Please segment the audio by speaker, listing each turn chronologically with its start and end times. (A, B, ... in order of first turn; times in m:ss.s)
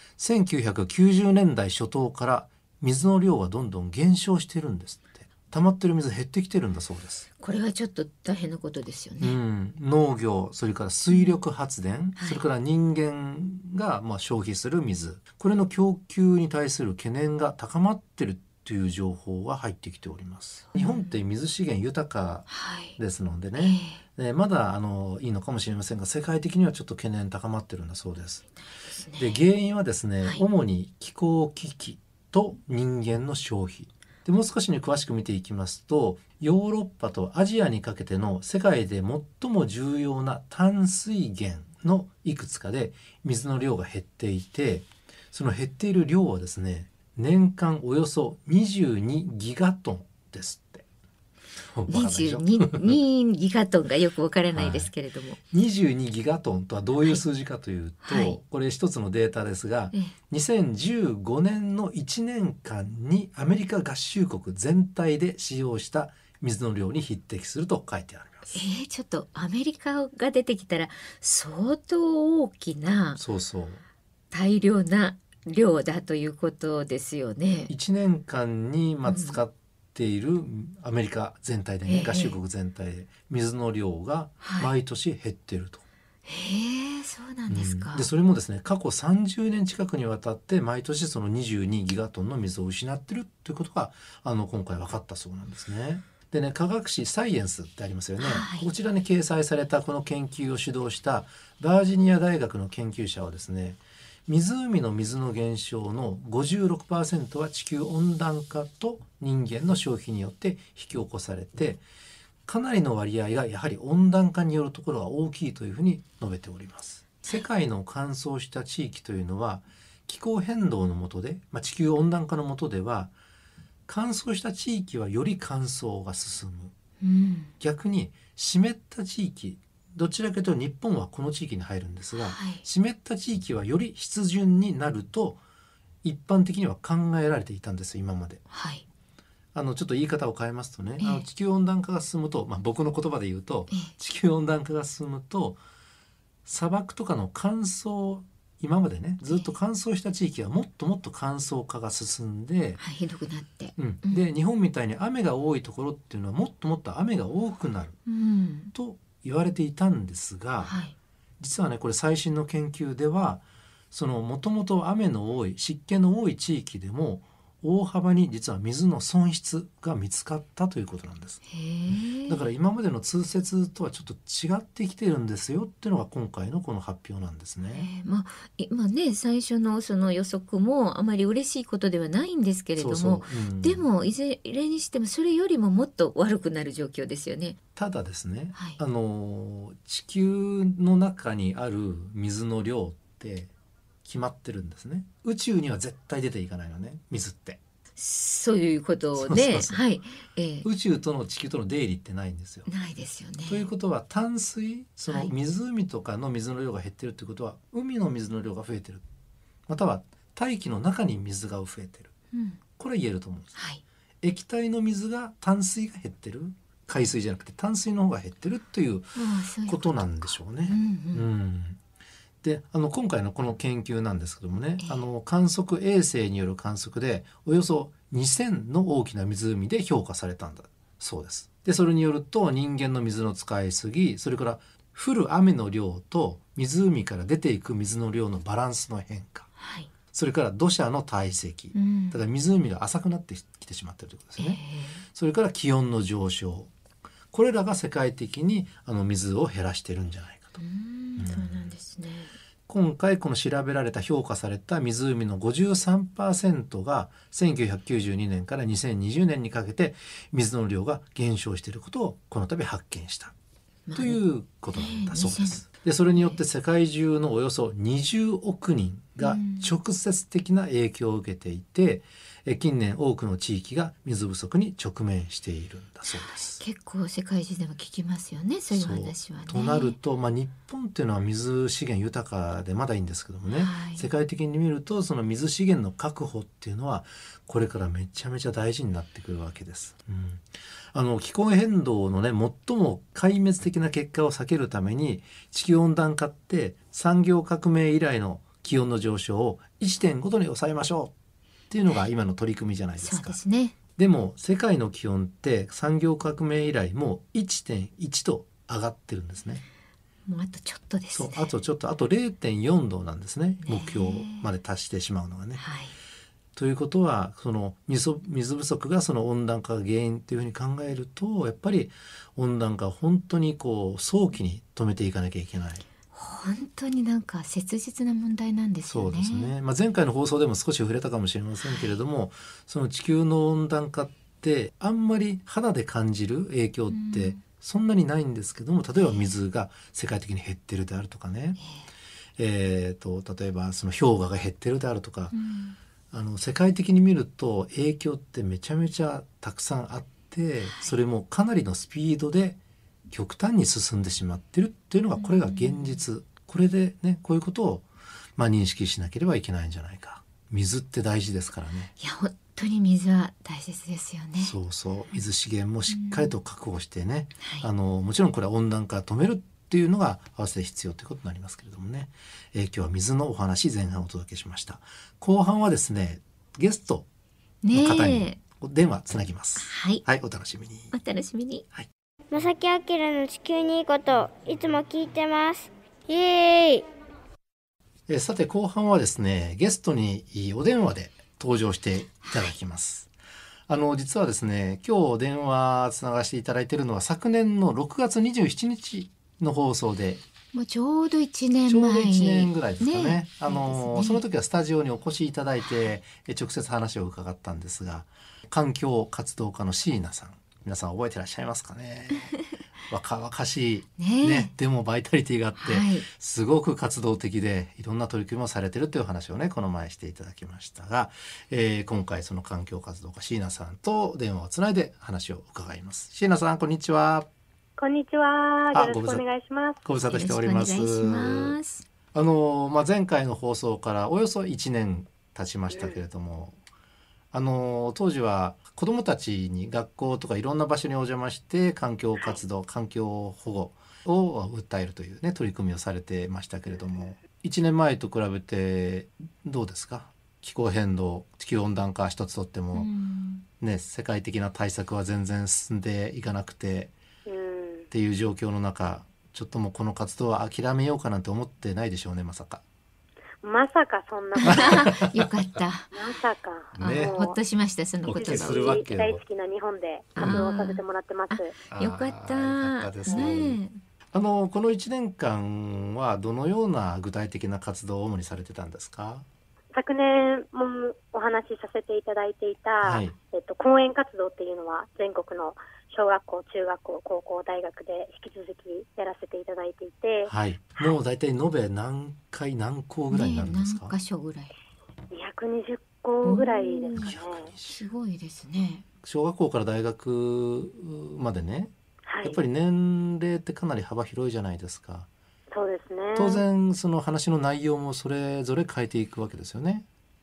0:00.2-0:07.3 A
0:07.4-0:09.4 B
0:09.2-0:28.4 A
0:11.1-0:11.4 B
0:12.2-0:12.4 B
0:20.7-0:21.1 B
0:22.5-0:23.0 B
0:23.6-0:24.0 B
0:28.7-0:29.4 B
0:29.2-0:50.8 A
0:51.6-0:53.0 A
0:51.9-0:55.4 B
0:54.5-0:54.9 A
0:55.5-1:08.6 A
0:58.0-0:58.4 B
1:08.5-1:13.2 B
1:13.2-1:13.8 A
1:14.3-1:17.7 B
1:17.7-1:25.8 A
1:19.1-1:19.4 B
1:21.9-1:22.4 B
1:24.4-1:24.7 B
1:26.2-1:28.1 B
1:27.5-1:51.8 A
1:38.2-1:38.7 B
1:52.5-2:03.1 A
2:03.9-2:06.7 A
2:07.0-2:07.5 B
2:07.6-2:15.4 A
2:12.1-2:12.6 B
2:16.0-2:18.4 A
2:18.5-2:18.8 B
2:19.5-2:25.6 A
2:21.0-2:21.3 B
2:26.4-2:32.8 A
2:29.3-2:29.5 B
2:32.8-2:34.2 B
2:33.8-2:38.0 A
2:38.1-2:38.7 B
2:38.7-2:40.8 A
2:40.6-2:40.9 B
2:41.4-2:57.9 A
2:51.5-2:52.4 B
2:57.7-3:07.6 B
3:02.8-3:03.9 A
3:07.8-3:13.5 A
3:08.6-3:08.8 B
3:14.0-3:17.6 A
3:18.0-3:20.7 B
3:19.2-3:19.8 A
3:20.6-3:22.7 A
3:22.7-3:23.7 B
3:23.5-3:29.0 A
3:29.7-3:32.1 A
3:32.3-3:32.6 B
3:32.8-3:33.5 A
3:33.6-3:33.8 B
3:34.2-3:41.8 A
3:39.2-3:41.3 B
3:42.4-3:59.5 A
3:59.6-3:59.9 B
4:00.1-4:04.6 A
4:01.7-4:02.2 B
4:04.4-4:05.0 B
4:05.1-4:06.7 A
4:07.3-4:10.6 A
4:10.6-4:12.3 B
4:11.2-4:11.7 A
4:12.7-4:23.3 A
4:23.9-4:24.2 B
4:24.0-4:36.6 A
4:24.7-4:26.4 B
4:29.2-4:29.8 B
4:36.1-4:40.0 B
4:38.7-5:01.1 A
4:43.5-4:44.1 B
5:01.7-5:09.6 A
5:03.0-5:03.8 B
5:10.3-5:11.5 B
5:11.1-5:15.6 A
5:13.6-5:14.5 B
5:15.6-5:15.9 B
5:16.6-5:25.8 A
5:26.1-5:29.5 B
5:28.9-5:41.6 A
5:31.6-5:32.0 B
5:36.9-5:37.4 B
5:41.6-5:41.9 B
5:42.4-5:45.4 A
5:45.3-5:45.8 B
5:46.1-5:52.6 A
5:50.6-5:50.9 B
5:53.1-5:57.8 A
5:55.1-5:56.0 B
5:58.4-6:01.9 A
6:02.0-6:04.6 B
6:04.4-6:17.1 A
6:05.9-6:06.4 B
6:07.4-6:07.7 B
6:17.6-6:18.4 B
6:17.7-6:20.9 A
6:19.6-6:20.0 B
6:20.9-6:21.7 B
6:22.3-6:26.9 C
6:28.1-6:33.1 A
6:32.3-6:32.5 B
6:33.7-6:40.2 A
6:40.5-6:44.2 B
6:41.7-7:07.3 A
6:54.0-6:54.5 B
6:55.6-6:56.1 B
7:07.8-7:09.8 D
7:08.7-7:09.2 A
7:09.8-7:11.6 A
7:10.0-7:11.9 B
7:12.1-7:16.6 A
7:15.7-7:16.0 D
7:17.3-7:32.9 A
7:32.7-7:33.5 B
7:33.6-7:36.9 A
7:37.3-7:37.9 D
7:37.9-7:42.6 A
7:43.4-7:44.9 D
7:44.5-7:45.9 B
7:44.5-7:45.2 A
7:45.9-7:47.4 D
7:46.8-7:48.8 B
7:46.8-7:47.2 A
7:48.0-7:49.2 A
7:48.1-7:51.6 D
7:50.2-7:53.8 B
7:50.2-7:50.4 A
7:51.7-7:53.6 A
7:53.1-7:53.4 D
7:54.1-7:59.2 A
7:59.7-8:10.3 D
8:02.8-8:03.2 A
8:10.3-8:13.9 A
8:13.1-8:14.6 B
8:15.1-8:17.5 D
8:16.2-8:17.1 B
8:17.0-8:17.9 A
8:17.7-8:18.9 B
8:19.0-8:21.7 A
8:22.1-8:22.4 D
8:22.2-8:25.1 A
8:25.5-8:26.4 D
8:26.2-8:29.9 A